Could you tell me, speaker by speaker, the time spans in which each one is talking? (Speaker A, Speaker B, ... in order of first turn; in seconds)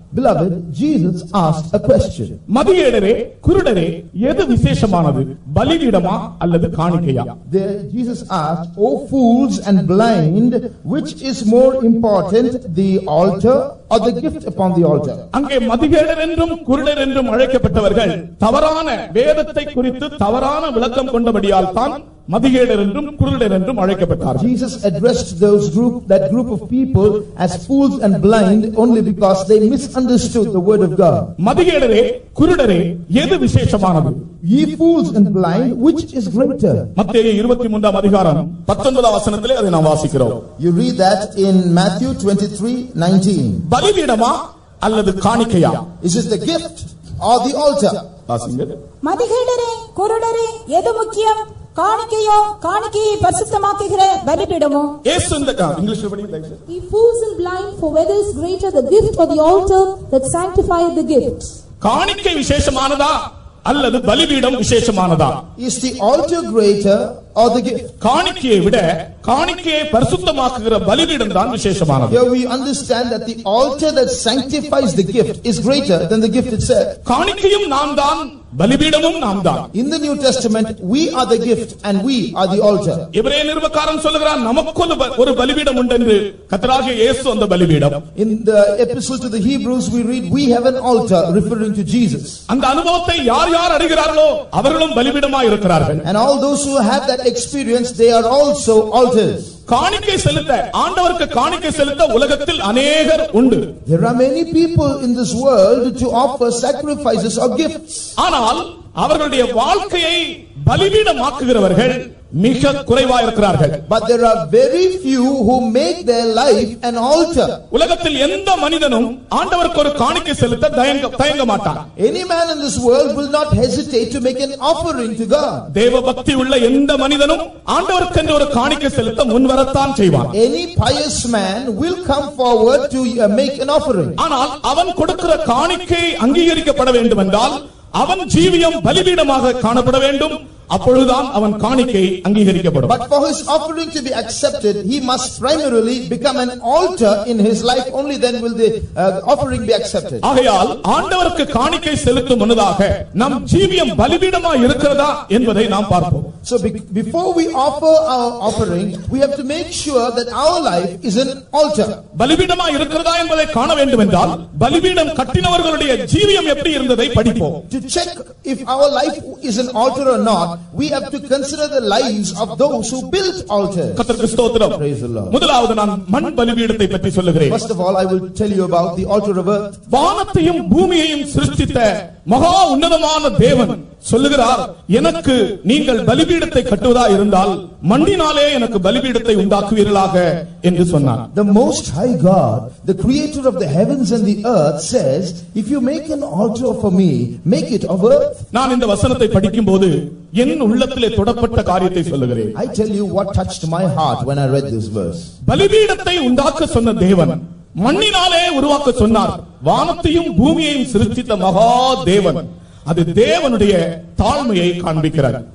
Speaker A: 0.1-2.4, 7.5-15.2, 24.4-31.3, 34.4-36.9, 40.6-43.6, 46.0-48.1, 65.6-67.9, 72.1-77.0, 79.7-83.1, 88.2-92.4, 96.0-99.5, 103.8-108.0, 113.9-117.6, 122.0-125.7, 130.3-134.2, 142.8-150.2, 156.4-162.0, 167.7-174.0, 174.7-175.4, 177.5-179.8, 191.3-198.4, 202.5-205.3
Speaker B: 2.5-7.3, 15.3-24.5, 31.4-34.2, 37.0-40.4, 43.7-45.9, 48.3-48.8, 55.0-56.6, 61.8-65.4, 68.0-72.2, 77.0-79.7, 83.1-88.0, 92.5-96.0, 99.7-103.7, 108.2-113.8, 117.7-121.8, 125.7-130.3, 134.2-142.9, 150.2-156.3, 162.1-167.6, 173.9-177.6, 179.9-191.3, 198.5-202.5, 205.4-215.4
Speaker C: 49.0-55.0, 56.7-61.5